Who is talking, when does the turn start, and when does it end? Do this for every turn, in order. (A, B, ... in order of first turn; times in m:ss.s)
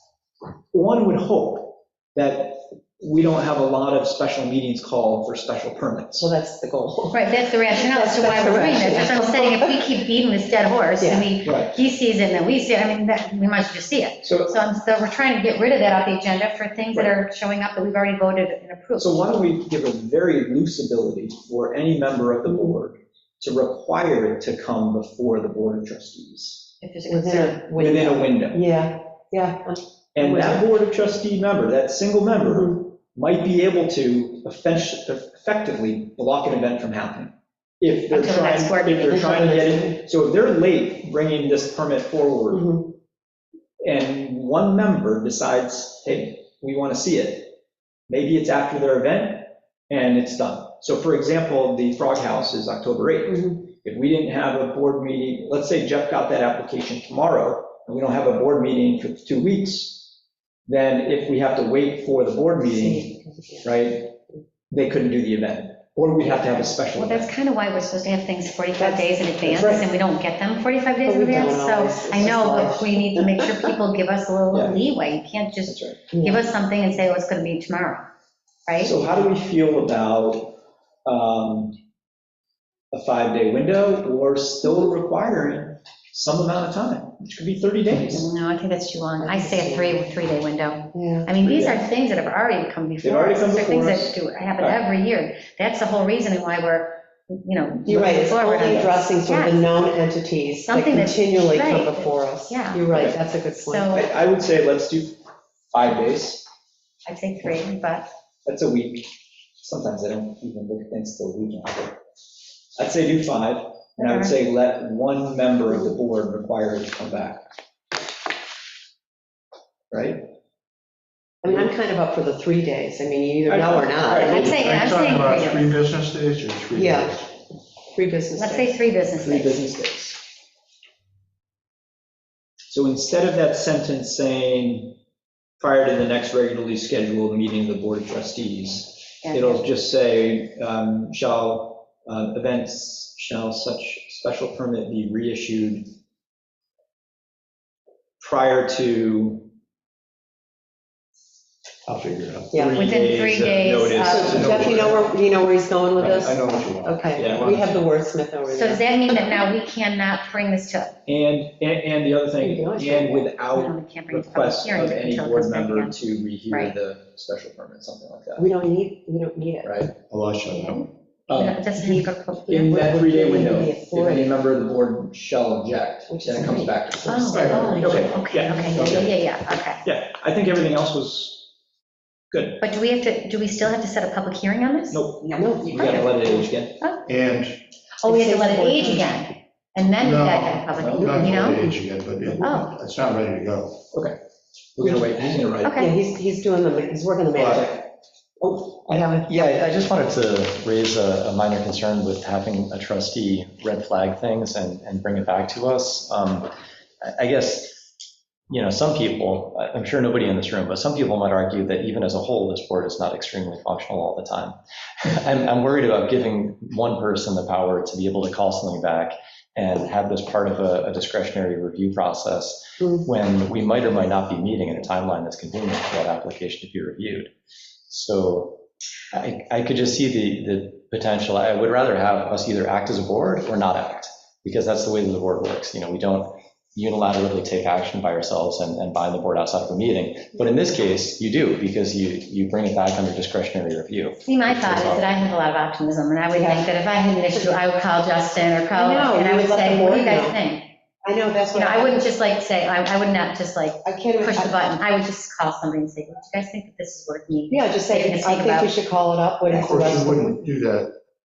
0:00.7-0:06.3 A
0:06.1-0:09.8 B
0:07.1-0:19.4 C
0:11.0-0:11.3 B
0:11.4-0:11.8 A
0:14.2-0:14.6 A
0:19.0-0:26.7 A
0:22.4-0:22.8 B
0:26.8-0:27.7 C
0:27.1-0:30.6 B
0:27.7-0:28.6 A
0:30.1-0:42.7 A
0:32.4-0:32.8 B
0:38.1-0:39.3 C
0:39.0-0:40.0 B
0:42.5-0:42.9 B
0:43.8-0:47.6 A
0:48.1-1:00.1 A
1:00.7-1:04.2 A
1:02.6-1:03.6 B
1:04.7-1:07.3 A
1:06.9-1:18.0 C
1:08.8-1:09.8 B
1:11.0-1:13.2 B
1:14.5-1:14.8 A
1:15.6-1:16.0 A
1:16.1-1:16.4 B
1:18.6-1:18.9 C
1:18.8-1:21.8 A
1:22.9-1:28.2 A
1:28.1-1:39.7 C
1:29.2-1:30.0 B
1:30.9-1:31.3 B
1:31.4-1:31.8 A
1:33.0-1:34.8 A
1:37.8-1:43.9 B
1:40.7-1:42.9 C
1:43.7-1:44.1 C
1:43.9-1:45.2 A
1:45.7-1:46.4 A
1:47.0-1:48.1 C
1:48.4-1:52.0 A
1:52.8-1:57.4 A
1:54.0-1:54.3 C
1:59.9-2:00.2 A
2:01.4-2:04.5 B
2:03.5-2:04.5 A
2:04.2-2:05.7 C
2:04.3-2:07.3 D
2:06.7-2:07.2 B
2:07.9-2:08.7 B
2:08.4-2:09.6 C
2:09.1-2:10.2 A
2:12.7-2:15.0 A
2:15.6-2:25.9 A
2:19.2-2:19.7 C
2:28.2-2:29.5 A
2:31.8-2:32.5 D
2:32.5-2:35.0 A
2:32.8-2:34.5 C
2:34.0-2:39.3 B
2:34.3-2:35.1 D
2:36.0-2:37.8 D
2:37.1-2:37.5 A
2:38.5-2:40.9 C
2:41.1-2:48.5 A
2:42.4-2:43.3 B
2:43.5-2:46.7 C
2:48.4-2:49.8 B
2:49.6-2:49.9 A
2:50.1-2:50.8 D
2:50.5-2:52.8 C
2:51.3-2:51.7 A
2:51.8-2:54.4 B
2:52.5-2:59.1 A
2:56.1-2:57.9 B
2:57.1-2:59.8 C
2:57.2-2:58.1 D
2:58.8-2:59.1 D
2:59.8-3:01.5 A
3:02.3-3:02.6 A
3:02.6-3:05.0 C
3:04.9-3:06.8 A
3:05.3-3:06.1 B
3:05.7-3:06.0 C
3:06.8-3:07.0 C
3:07.1-3:07.6 D
3:08.0-3:11.7 C
3:08.0-3:09.1 B
3:10.0-3:13.8 D
3:10.8-3:11.4 A
3:12.4-3:12.7 C
3:13.9-3:14.2 A
3:14.8-3:15.8 A
3:15.6-3:15.9 C
3:15.8-3:17.8 B
3:17.3-3:17.6 D
3:17.4-3:17.8 A
3:18.4-3:19.6 B
3:19.0-3:26.5 E
3:27.0-3:27.9 E
3:28.5-3:47.3 E
3:47.9-4:05.2 E
4:04.2-4:10.7 C
4:06.3-4:06.7 B
4:07.3-4:07.6 B
4:08.7-4:10.4 B
4:11.0-4:12.1 B
4:11.5-4:18.7 C
4:13.8-4:14.6 B
4:17.5-4:20.4 B
4:19.5-4:21.0 D